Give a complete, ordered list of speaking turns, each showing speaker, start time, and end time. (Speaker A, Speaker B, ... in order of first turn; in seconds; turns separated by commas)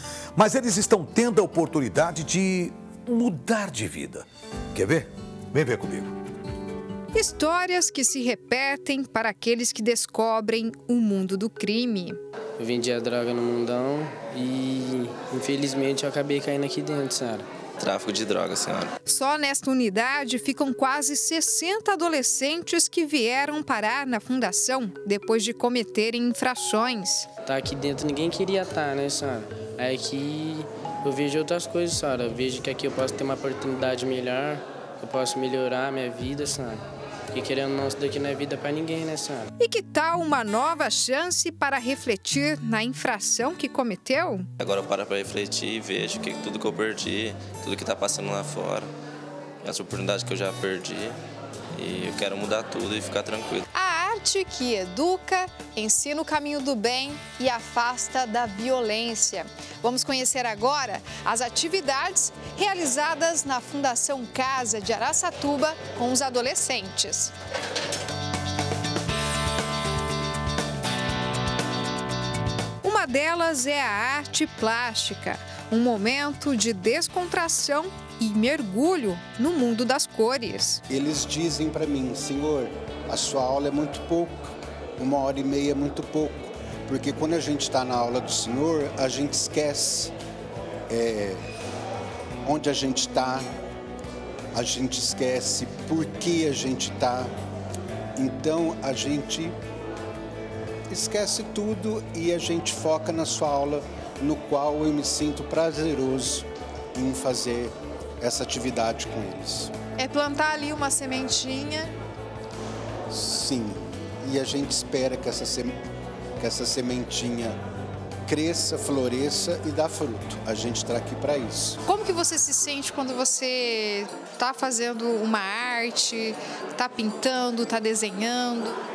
Speaker A: 0.4-6.1, Speaker B: 7.1-12.2, Speaker C: 12.6-17.5, Speaker D: 17.8-18.9, Speaker B: 19.1-27.3, Speaker C: 27.5-39.5, Speaker B: 39.6-44.5, Speaker D: 44.6-48.9, Speaker D: 49.6-51.2, Speaker D: 51.8-53.6, Speaker B: 53.7-67.3, Speaker B: 72.8-80.8, Speaker E: 80.9-90.1, Speaker E: 90.9-91.4, Speaker E: 92.5-93.5, Speaker E: 94.5-97.3, Speaker E: 98.2-99.6, Speaker E: 100.9-109.7, Speaker B: 110.0-111.9, Speaker E: 113.1-115.8, Speaker E: 116.4-117.6, Speaker E: 118.3-121.8, Speaker B: 121.9-128.8